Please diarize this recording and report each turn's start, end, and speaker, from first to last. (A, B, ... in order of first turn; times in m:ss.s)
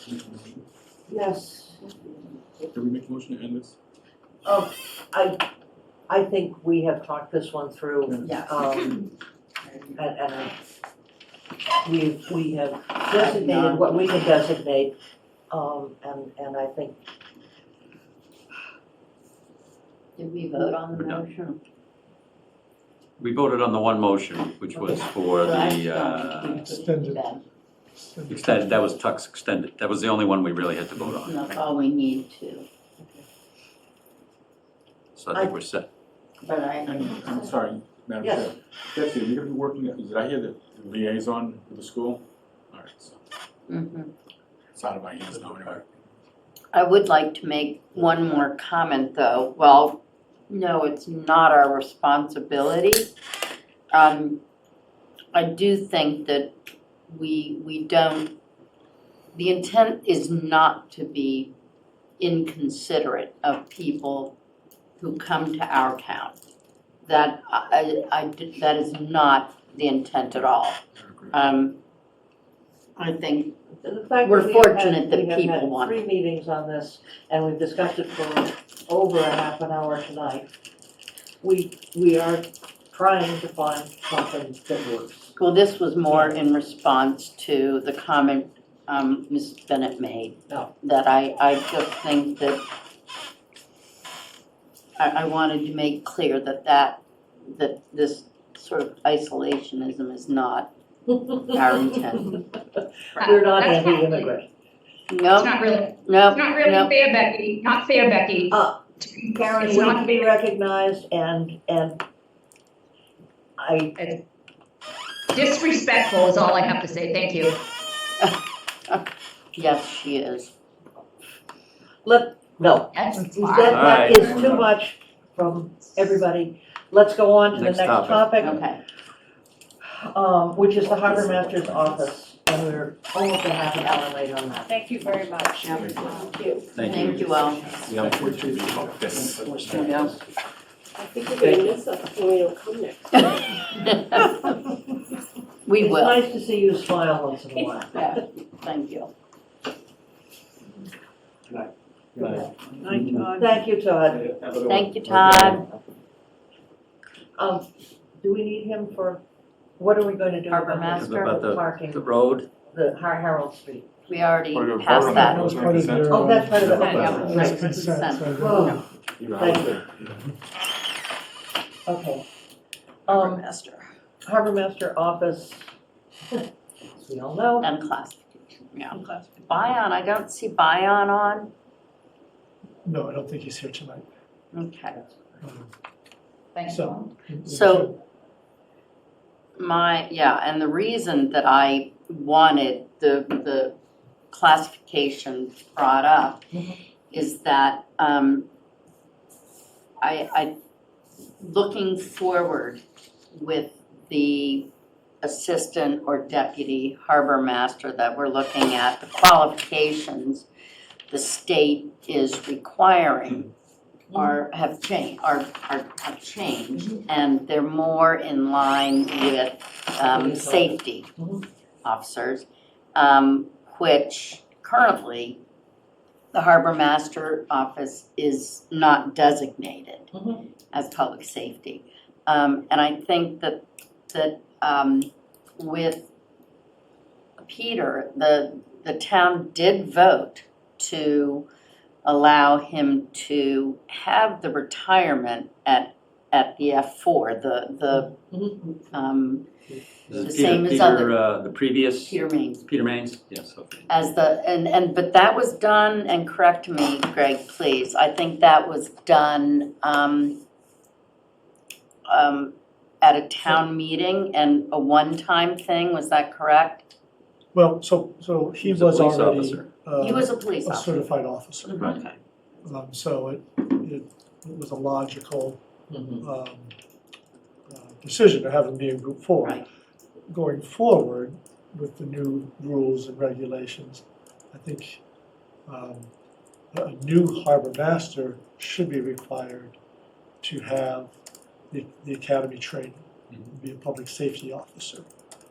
0:01.1-0:01.9 A
0:02.7-0:03.8 B
0:04.4-0:05.4 A
0:06.1-0:09.0 A
0:08.2-0:09.0 C
0:09.6-0:10.0 C
0:10.0-0:10.5 A
0:11.8-0:15.0 A
0:13.1-0:13.9 C
0:15.5-0:17.0 A
0:20.2-0:21.6 C
0:20.9-0:21.2 D
0:23.2-0:26.6 D
0:24.7-0:27.4 C
0:26.6-0:27.4 E
0:28.1-0:29.0 E
0:28.3-0:31.5 D
0:31.2-0:32.6 C
0:35.2-0:35.9 D
0:36.4-0:37.0 C
0:36.8-0:43.2 B
0:37.1-0:37.5 A
0:38.2-0:38.5 A
0:43.7-0:44.1 C
0:44.7-0:45.8 B
0:46.7-0:53.1 C
0:53.9-0:54.4 C
0:55.3-0:56.5 C
0:57.1-0:58.3 C
0:59.3-1:01.5 C
1:02.2-1:04.3 C
1:05.0-1:06.4 C
1:07.0-1:10.8 C
1:11.0-1:11.3 B
1:11.3-1:11.8 C
1:13.0-1:13.6 C
1:13.8-1:20.5 A
1:14.2-1:16.0 C
1:21.4-1:25.3 A
1:25.4-1:32.6 C
1:35.0-1:40.7 C
1:41.2-1:42.4 C
1:42.8-1:44.5 A
1:43.2-1:44.3 F
1:45.1-1:46.9 C
1:45.4-1:50.2 F
1:48.5-1:48.8 A
1:49.4-1:52.0 A
1:53.6-1:54.0 A
1:54.0-1:54.2 F
1:55.3-1:57.6 F
1:59.5-2:00.5 C
2:02.0-2:08.5 A
2:02.9-2:03.7 F
2:03.7-2:04.5 D
2:03.7-2:04.6 B
2:07.5-2:08.6 D
2:08.4-2:08.8 C
2:09.9-2:14.7 A
2:14.7-2:17.4 G
2:15.6-2:16.2 B
2:15.8-2:16.2 C
2:16.7-2:17.3 D
2:16.8-2:17.9 C
2:17.8-2:19.8 B
2:17.9-2:18.2 D
2:19.4-2:20.0 A
2:19.7-2:20.2 C
2:21.0-2:23.6 G
2:23.2-2:24.5 C
2:25.6-2:26.2 C
2:25.8-2:28.1 A
2:27.9-2:29.1 C
2:32.2-2:34.3 A
2:34.6-2:35.6 C
2:37.4-2:37.6 A
2:38.2-2:39.2 A
2:39.8-2:42.1 A
2:40.5-2:41.4 C
2:40.9-2:42.5 D
2:42.7-2:43.9 A
2:44.1-2:45.8 C
2:44.5-2:47.0 B
2:44.9-2:48.7 E
2:46.1-2:47.7 A
2:46.8-2:48.8 C
2:48.4-2:48.8 A
2:49.3-2:49.7 B
2:49.4-2:49.8 A
2:51.8-2:52.2 A
2:53.1-2:53.9 C
2:53.1-2:53.4 A
2:54.2-2:55.7 A
2:56.9-2:57.7 A
2:57.6-3:01.5 C
3:02.8-3:04.0 E
3:04.5-3:05.0 C
3:05.4-3:05.7 E
3:06.6-3:08.0 E
3:07.4-3:07.9 C
3:09.6-3:13.7 C
3:14.3-3:16.4 C
3:17.1-3:18.5 C
3:20.0-3:20.5 C
3:21.4-3:22.8 C
3:23.3-3:24.7 C
3:25.2-3:30.5 C
3:31.1-3:33.5 C
3:34.1-3:34.4 A
3:34.1-3:41.1 C
3:40.1-3:41.4 A
3:41.8-3:45.4 C
3:46.3-3:50.1 C
3:50.1-3:50.4 A
3:50.7-3:56.1 C
3:57.4-4:01.4 C
4:02.0-4:08.2 C
4:08.9-4:09.5 C
4:10.1-4:13.9 D
4:10.1-4:11.1 C
4:12.1-4:12.7 C
4:13.9-4:20.4 C
4:22.1-4:26.9 C
4:27.5-4:32.0 E
4:28.6-4:29.7 D
4:30.0-4:31.1 C
4:31.6-4:32.1 C
4:32.6-4:35.6 E
4:35.9-4:36.2 A
4:36.2-4:36.7 E
4:37.7-4:39.6 E
4:40.3-4:45.0 E
4:45.7-4:46.1 E
4:46.7-4:49.8 E
4:50.4-4:51.1 E
4:51.7-4:55.1 E